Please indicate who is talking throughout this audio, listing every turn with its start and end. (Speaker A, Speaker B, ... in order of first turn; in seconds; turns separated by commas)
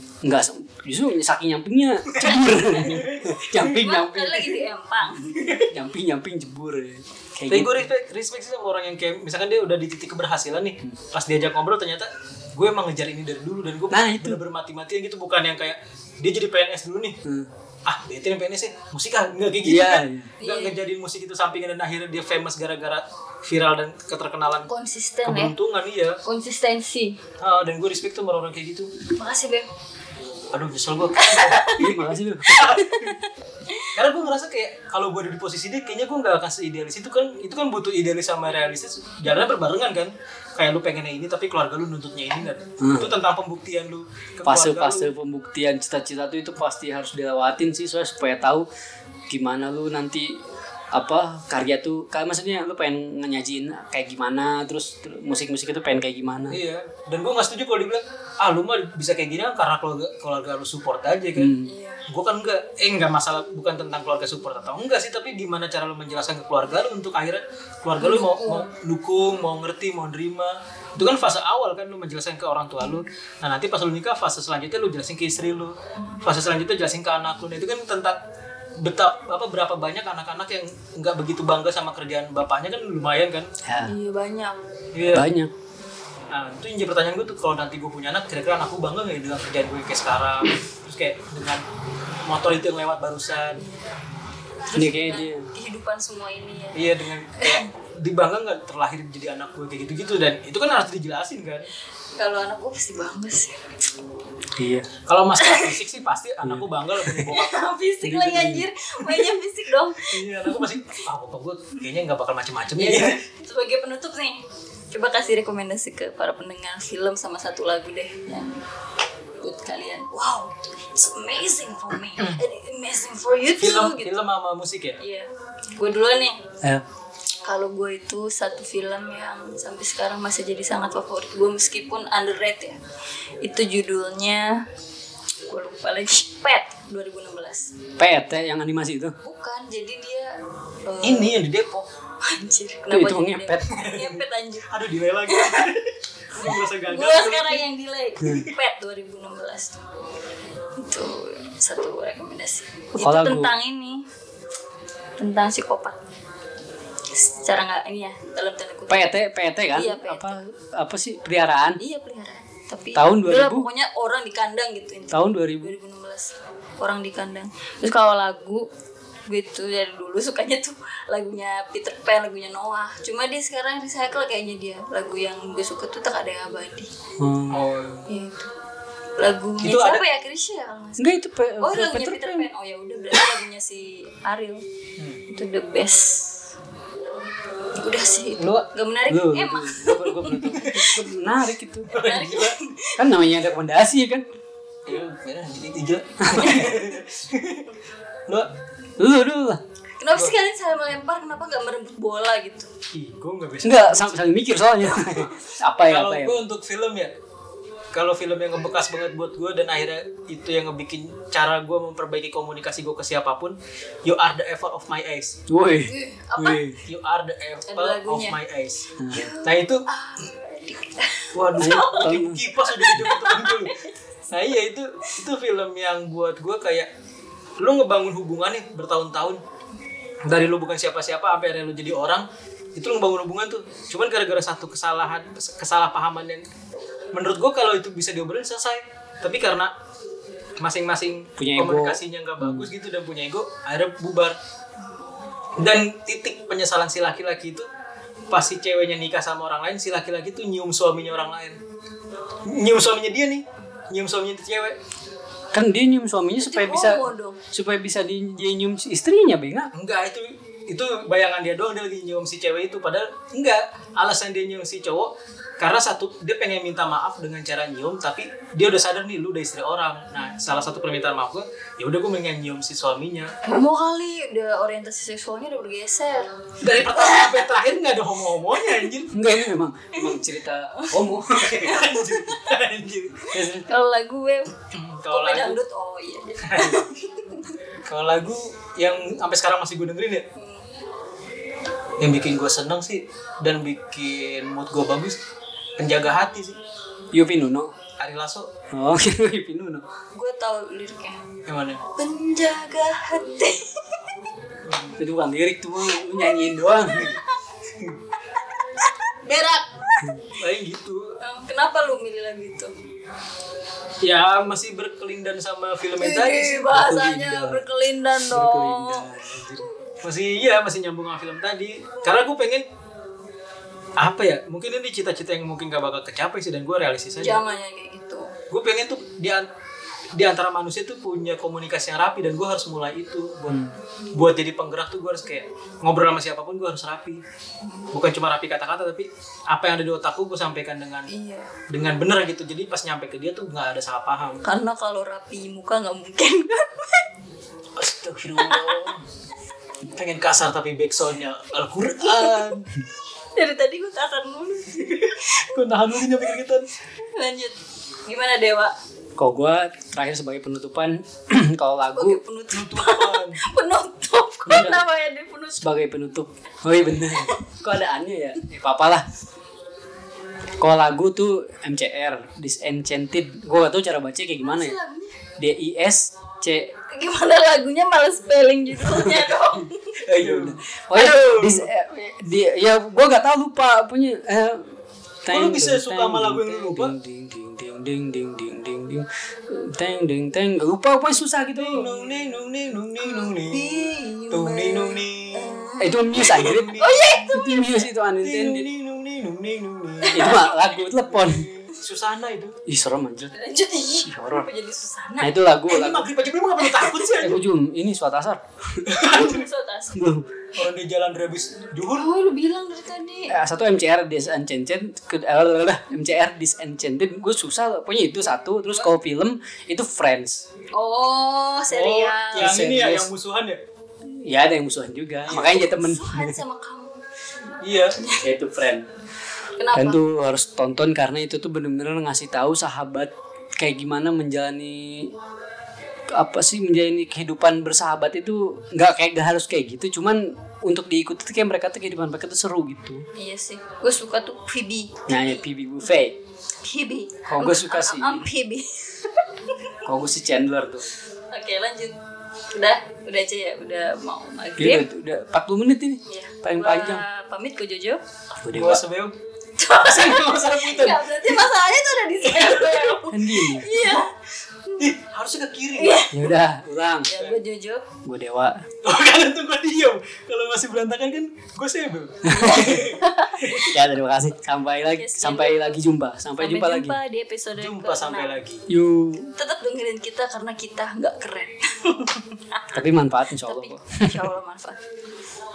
Speaker A: 0.2-4.5, Speaker B: 2.1-3.8, Speaker C: 3.7-5.4, Speaker B: 5.3-5.7, Speaker A: 5.6-7.9, Speaker B: 7.5-17.2, Speaker A: 13.9-14.4, Speaker A: 17.2-17.5, Speaker B: 17.9-24.7, Speaker A: 19.6-20.3, Speaker C: 20.4-20.8, Speaker C: 24.7-25.6, Speaker B: 25.2-26.2, Speaker C: 26.2-27.2, Speaker B: 27.4-28.9, Speaker C: 29.1-29.7, Speaker B: 30.5-31.9, Speaker C: 31.2-31.9, Speaker A: 31.8-32.8, Speaker B: 32.5-33.2, Speaker C: 32.7-33.9, Speaker B: 33.9-45.1, Speaker A: 42.8-43.2, Speaker A: 44.5-48.7, Speaker A: 49.3-50.4, Speaker A: 50.9-56.6, Speaker B: 56.5-61.5, Speaker A: 61.4-61.7, Speaker C: 61.6-62.1, Speaker B: 62.1-78.2, Speaker C: 68.0-68.7, Speaker B: 78.8-83.5, Speaker A: 83.6-84.0, Speaker C: 83.9-84.6, Speaker B: 84.9-85.3, Speaker A: 85.1-85.5, Speaker B: 86.3-91.7, Speaker B: 92.2-93.7, Speaker C: 94.7-97.7, Speaker A: 94.7-95.5, Speaker B: 96.8-101.7, Speaker C: 102.2-103.6, Speaker A: 104.6-104.9, Speaker B: 105.0-109.4, Speaker C: 105.4-105.8, Speaker A: 106.4-107.2, Speaker C: 107.2-110.8, Speaker A: 108.1-108.6, Speaker B: 110.0-113.2, Speaker C: 112.8-118.6, Speaker C: 119.4-124.2, Speaker B: 123.6-125.0, Speaker C: 125.0-126.4, Speaker C: 127.4-132.8, Speaker C: 133.4-134.7, Speaker C: 135.5-137.8, Speaker A: 138.0-139.2, Speaker C: 139.2-141.5, Speaker B: 141.0-141.8, Speaker C: 142.2-145.8, Speaker A: 142.9-143.7, Speaker B: 143.7-147.7, Speaker C: 146.5-149.8, Speaker C: 150.8-154.1, Speaker A: 153.0-153.5, Speaker C: 155.2-156.0, Speaker C: 157.1-159.1, Speaker A: 158.9-161.8, Speaker C: 159.7-160.4, Speaker C: 161.8-168.7, Speaker A: 162.9-163.7, Speaker A: 165.1-165.8, Speaker C: 169.3-176.9, Speaker A: 177.2-177.6, Speaker B: 177.5-178.1, Speaker C: 178.1-178.5, Speaker C: 179.2-184.6, Speaker B: 179.6-180.0, Speaker A: 181.0-182.5, Speaker C: 185.3-186.5, Speaker C: 187.8-191.1, Speaker B: 188.4-188.7, Speaker A: 189.1-191.9, Speaker B: 190.6-190.9, Speaker C: 191.9-193.1, Speaker B: 191.9-192.6, Speaker A: 193.0-194.3, Speaker B: 194.9-197.7, Speaker A: 196.2-196.8, Speaker C: 196.3-196.8, Speaker A: 199.0-199.6, Speaker C: 200.0-202.7, Speaker B: 202.9-204.2, Speaker A: 203.6-206.4, Speaker B: 204.8-205.3, Speaker B: 205.8-207.1, Speaker B: 207.9-215.4, Speaker A: 215.5-216.8, Speaker C: 215.8-216.7, Speaker B: 216.8-219.9, Speaker C: 217.7-218.4, Speaker A: 219.0-219.3, Speaker C: 219.1-223.9, Speaker B: 221.3-223.8, Speaker A: 221.6-222.5, Speaker B: 224.3-226.9, Speaker B: 227.6-229.4, Speaker B: 230.2-236.4, Speaker B: 237.1-239.7, Speaker B: 240.6-244.4, Speaker A: 241.4-242.7, Speaker C: 244.8-245.1, Speaker B: 245.6-247.7, Speaker B: 248.3-251.6, Speaker B: 252.4-254.8, Speaker A: 255.5-259.7, Speaker C: 256.4-257.4, Speaker B: 259.7-273.3, Speaker C: 273.4-277.5, Speaker B: 276.6-279.2, Speaker C: 278.5-279.0, Speaker A: 279.1-281.8, Speaker C: 279.9-280.2, Speaker C: 280.7-281.1, Speaker B: 281.2-283.4, Speaker C: 281.8-282.4, Speaker A: 283.3-283.7, Speaker C: 283.6-287.6, Speaker B: 284.7-285.6, Speaker B: 286.4-286.9, Speaker B: 287.9-290.3, Speaker C: 290.4-290.7, Speaker B: 292.0-295.2, Speaker B: 295.8-296.6, Speaker A: 297.1-297.7, Speaker B: 298.0-298.5, Speaker A: 298.7-299.9, Speaker C: 300.1-301.2, Speaker B: 301.5-301.8, Speaker C: 301.9-304.1, Speaker B: 304.6-305.0, Speaker A: 305.0-307.2, Speaker C: 306.0-307.2, Speaker C: 308.5-310.2, Speaker B: 310.3-311.1, Speaker C: 311.2-312.7, Speaker B: 314.0-316.8, Speaker C: 316.0-319.6, Speaker A: 316.7-317.6, Speaker A: 318.2-319.7, Speaker B: 320.0-322.7, Speaker B: 324.0-327.4, Speaker C: 327.2-328.4, Speaker B: 328.5-329.5, Speaker B: 330.1-337.2, Speaker B: 337.9-341.1, Speaker C: 341.1-341.5, Speaker B: 341.7-344.5, Speaker C: 344.4-347.1, Speaker B: 347.8-349.1, Speaker C: 348.4-349.0, Speaker B: 349.9-352.7, Speaker C: 352.0-352.5, Speaker C: 353.4-355.5, Speaker B: 354.8-356.7, Speaker C: 357.0-358.8, Speaker A: 359.2-362.2, Speaker C: 361.9-365.8, Speaker B: 362.5-363.4, Speaker A: 364.5-364.8, Speaker A: 365.6-369.1, Speaker C: 367.0-367.4, Speaker A: 370.6-374.8, Speaker C: 374.4-375.2, Speaker A: 375.4-376.7, Speaker C: 376.9-380.1, Speaker A: 378.8-391.9, Speaker B: 380.1-381.7, Speaker B: 385.3-386.9, Speaker B: 391.6-397.0, Speaker C: 391.8-392.1, Speaker C: 393.0-397.9, Speaker A: 395.8-398.7, Speaker B: 398.2-400.4, Speaker C: 400.0-400.8, Speaker A: 400.1-401.5, Speaker B: 401.1-402.6, Speaker A: 402.7-403.3, Speaker C: 403.3-405.3, Speaker A: 404.1-404.5, Speaker A: 405.2-406.1, Speaker B: 405.7-407.4, Speaker C: 406.7-407.1, Speaker A: 407.2-409.0, Speaker C: 408.9-410.1, Speaker B: 408.9-409.4, Speaker A: 409.9-410.3, Speaker B: 410.6-412.1, Speaker C: 411.8-413.4, Speaker A: 413.3-420.5, Speaker C: 420.7-422.6, Speaker B: 421.7-423.6, Speaker A: 422.4-423.1, Speaker A: 424.2-426.4, Speaker B: 425.3-425.6, Speaker C: 425.3-427.0, Speaker B: 427.6-428.0, Speaker C: 427.9-428.3, Speaker A: 428.2-428.9, Speaker C: 429.6-430.0, Speaker A: 429.7-435.1, Speaker A: 436.1-443.1, Speaker C: 443.1-445.4, Speaker A: 445.1-446.2, Speaker C: 446.6-449.8, Speaker A: 447.3-448.3, Speaker A: 449.8-450.9, Speaker C: 451.3-452.0, Speaker C: 452.5-454.9, Speaker A: 454.6-457.0, Speaker C: 456.1-458.0, Speaker A: 458.3-458.8, Speaker B: 458.5-459.2, Speaker C: 459.6-464.9, Speaker B: 459.8-461.3, Speaker B: 462.3-463.0, Speaker A: 463.1-463.7, Speaker B: 464.8-466.1, Speaker C: 465.8-466.3, Speaker A: 466.1-467.1, Speaker C: 467.0-467.9, Speaker A: 468.0-468.7, Speaker B: 468.8-473.8, Speaker A: 472.2-472.9, Speaker C: 472.3-473.7, Speaker A: 473.6-477.0, Speaker C: 474.8-475.9, Speaker C: 476.4-478.4, Speaker B: 477.6-478.7, Speaker A: 478.7-479.3, Speaker C: 479.3-482.8, Speaker A: 482.7-484.3, Speaker C: 483.4-484.8